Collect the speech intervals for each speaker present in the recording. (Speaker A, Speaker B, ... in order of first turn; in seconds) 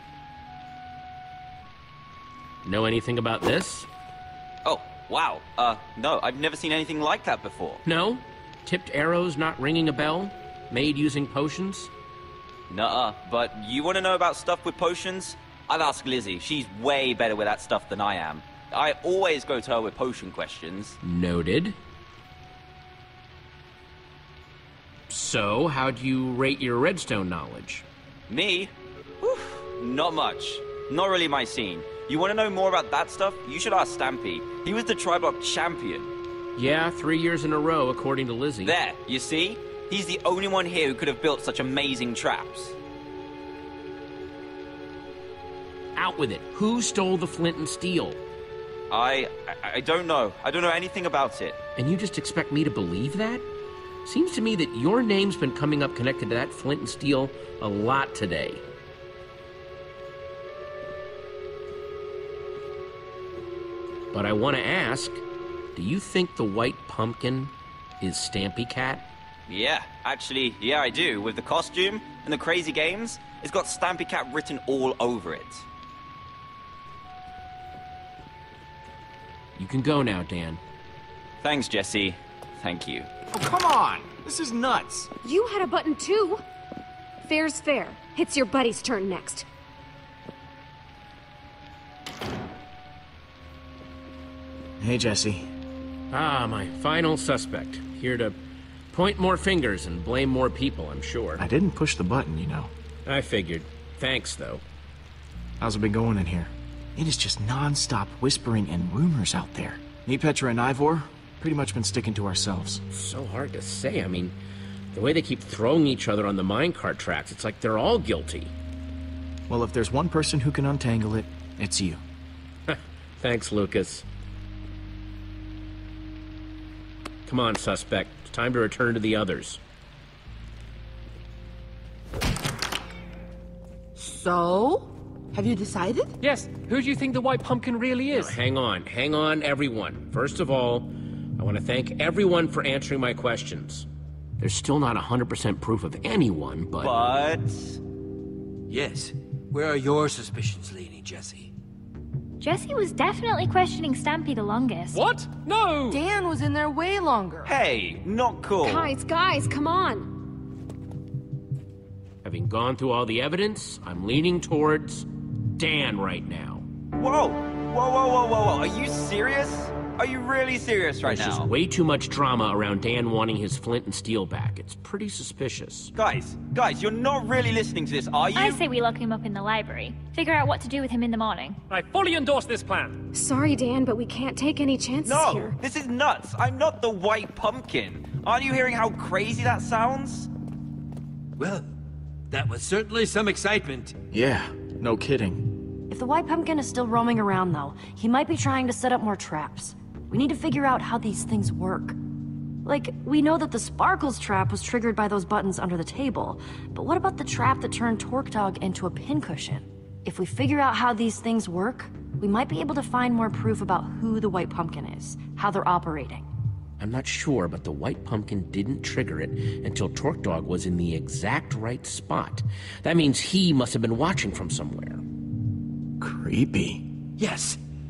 Speaker A: 2.6-3.9, 7.8-11.9, 21.0-21.8, 25.1-27.8, 36.5-38.8, 46.0-48.2, 51.8-53.4, 54.0-58.6, 64.1-65.2, 65.8-69.1, 79.6-80.6, 96.1-98.3, 98.9-101.4, 103.0-104.6, 112.9-114.3, 114.9-118.5, 122.7-124.0, 127.2-129.6, 138.1-143.8, 144.4-147.1, 162.2-166.7, 171.0-175.9, 216.8-225.0
Speaker B: 4.6-7.8, 12.7-21.0, 28.3-36.1, 38.6-42.8, 48.9-51.6, 69.5-75.7, 81.4-83.1, 146.8-147.8, 157.4-158.9, 166.9-171.5, 175.9-178.6, 185.0-190.3
Speaker C: 83.3-85.1, 94.8-95.5, 101.4-102.7, 105.6-112.8, 119.5-122.0, 194.1-195.4, 226.0-226.8
Speaker D: 85.2-86.4, 87.2-89.5, 158.6-160.1, 183.1-185.5
Speaker E: 134.1-136.1, 155.9-157.6
Speaker F: 136.2-138.4, 154.9-156.0, 181.7-183.0
Speaker G: 148.7-149.0, 149.5-151.3, 192.3-193.7
Speaker H: 152.4-155.0, 178.3-181.6
Speaker I: 195.9-202.0, 202.6-216.2